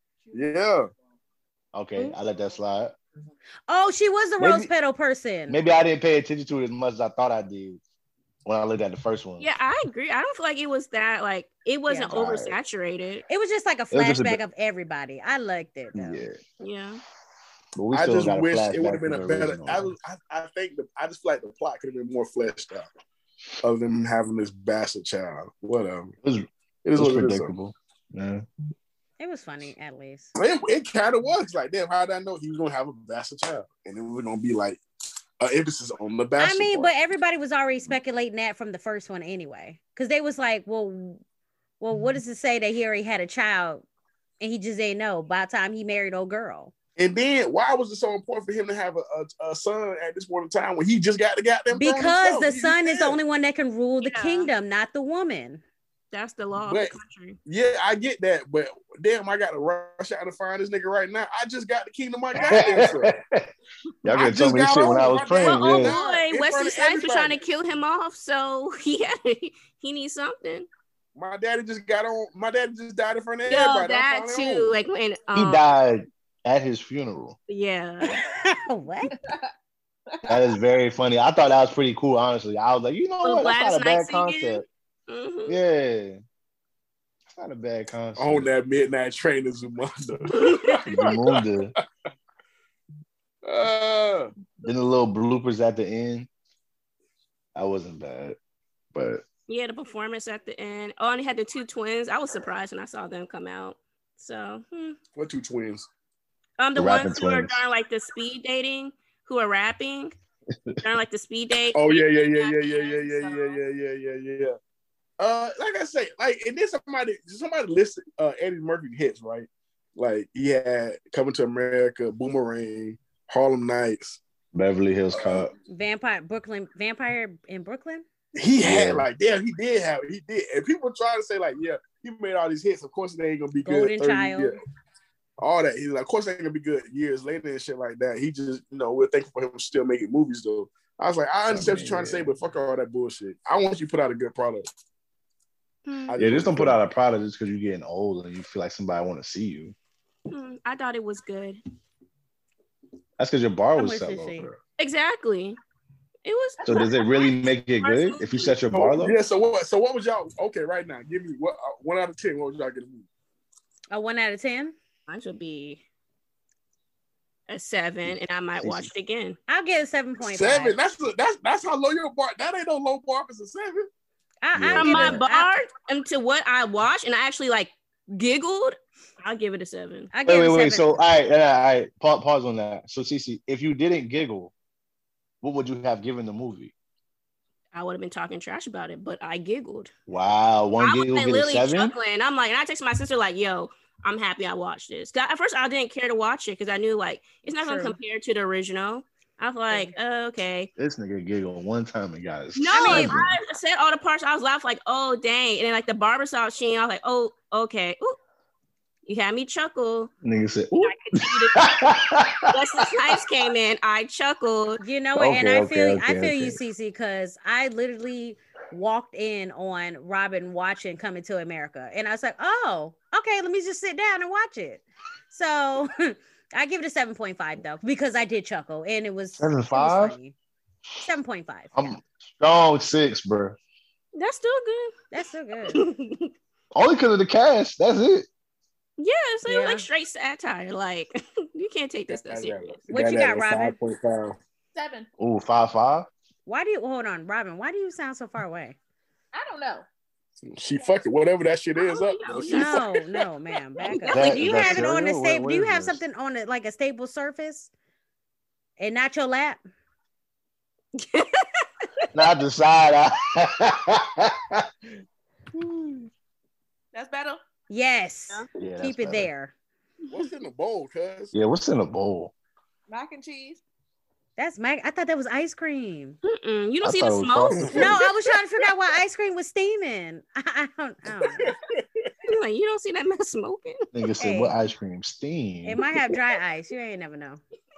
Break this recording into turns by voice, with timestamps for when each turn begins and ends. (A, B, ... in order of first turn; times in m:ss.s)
0:00.3-0:00.9 A
0:01.7-0:03.0 B
0:03.7-0:05.6 C
0:04.4-0:04.7 B
0:05.5-0:07.8 B
0:08.4-0:09.5 B
0:09.4-0:13.2 D
0:11.9-0:12.2 C
0:12.1-0:12.6 B
0:13.3-0:16.2 C
0:13.9-0:14.4 B
0:16.0-0:16.4 B
0:16.6-0:17.0 D
0:17.8-0:19.9 B
0:17.9-0:22.9 A
0:23.6-0:26.1 A
0:26.2-0:28.4 B
0:26.8-0:27.5 A
0:29.2-0:30.3 C
0:30.4-0:34.8 A
0:35.4-0:36.9 A
0:36.4-0:41.2 C
0:41.8-0:43.8 C
0:44.4-0:46.7 C
0:47.0-0:53.2 A
0:51.7-0:55.6 C
0:54.0-0:54.5 D
0:56.1-0:57.4 D
0:56.7-0:56.9 A
0:57.5-1:03.1 A
1:02.4-1:03.5 B
1:04.0-1:06.0 B
1:04.1-1:07.4 A
1:05.3-1:10.7 D
1:11.2-1:14.7 A
1:13.5-1:15.6 D
1:15.4-1:17.4 B
1:17.5-1:18.2 D
1:18.0-1:19.1 C
1:19.2-1:19.5 E
1:20.1-1:20.4 E
1:20.3-1:24.6 B
1:23.2-1:25.6 D
1:25.5-1:26.2 B
1:27.3-1:28.5 B
1:28.2-1:31.4 A
1:30.3-1:31.1 D
1:30.9-1:31.7 B
1:33.4-1:34.3 A
1:34.6-1:36.3 B
1:37.6-1:38.4 B
1:38.9-1:39.2 B
1:39.5-1:45.0 D
1:45.2-1:45.9 A
1:46.6-1:50.2 D
1:46.8-1:47.6 B
1:50.8-1:53.6 D
1:51.7-1:54.6 A
1:55.2-2:04.2 A
2:04.5-2:05.5 B
2:05.2-2:05.4 A
2:05.7-2:08.0 C
2:08.4-2:14.6 A
2:08.6-2:09.1 B
2:13.6-2:14.6 C
2:15.4-2:24.7 A
2:21.5-2:22.3 B
2:25.9-2:26.2 D
2:26.1-2:26.8 A
2:26.2-2:29.8 B
2:30.3-2:31.6 D
2:33.2-2:34.6 B
2:33.8-2:34.5 C
2:34.8-2:35.6 D
2:36.2-2:38.6 D
2:36.6-2:39.2 B
2:38.7-2:43.1 A
2:43.9-2:44.8 C
2:45.1-2:45.8 D
2:47.5-2:49.4 D
2:48.0-2:48.9 B
2:49.5-2:50.8 C
2:50.3-2:53.9 A
2:54.4-2:55.5 C
2:54.5-2:55.2 B
2:54.8-3:00.1 D
3:00.1-3:01.0 C
3:00.3-3:04.5 B
3:05.4-3:06.7 B
3:07.7-3:09.9 D
3:10.1-3:11.9 B
3:10.8-3:20.7 D
3:17.6-3:18.0 C
3:19.7-3:20.0 C
3:20.8-3:23.4 B
3:22.6-3:28.2 D
3:22.7-3:23.2 C
3:29.1-3:30.1 D
3:30.2-3:33.2 B
3:30.8-3:31.6 D
3:32.5-3:34.8 D
3:34.8-3:50.4 C
3:35.2-3:36.6 B
3:49.4-3:50.2 B
3:51.0-3:52.0 C
3:51.8-3:53.6 B
3:54.2-3:54.9 D
3:55.1-3:55.8 C
3:55.7-3:56.3 D
3:56.7-3:58.3 B
3:59.0-4:02.8 D
3:59.5-3:59.8 C
4:02.1-4:04.4 A
4:02.9-4:03.8 C
4:04.7-4:05.1 E
4:05.2-4:06.1 B
4:06.5-4:08.8 C
4:09.3-4:09.9 E
4:10.5-4:12.9 A
4:11.8-4:13.3 D
4:12.5-4:17.7 C
4:13.8-4:14.9 D
4:14.1-4:16.0 B
4:18.8-4:19.6 C
4:21.0-4:21.6 D
4:22.1-4:24.7 B
4:25.5-4:26.1 B
4:26.9-4:27.4 E
4:27.7-4:29.5 C
4:28.6-4:29.3 B
4:30.1-4:31.3 A
4:31.3-4:32.3 B
4:32.9-4:33.6 E
4:34.4-4:36.2 C
4:36.2-4:38.0 D
4:36.8-4:37.9 B
4:37.7-4:41.5 C
4:41.3-4:42.1 A
4:42.2-4:43.9 D
4:43.9-4:45.8 B
4:44.2-4:44.6 C
4:45.6-4:47.4 C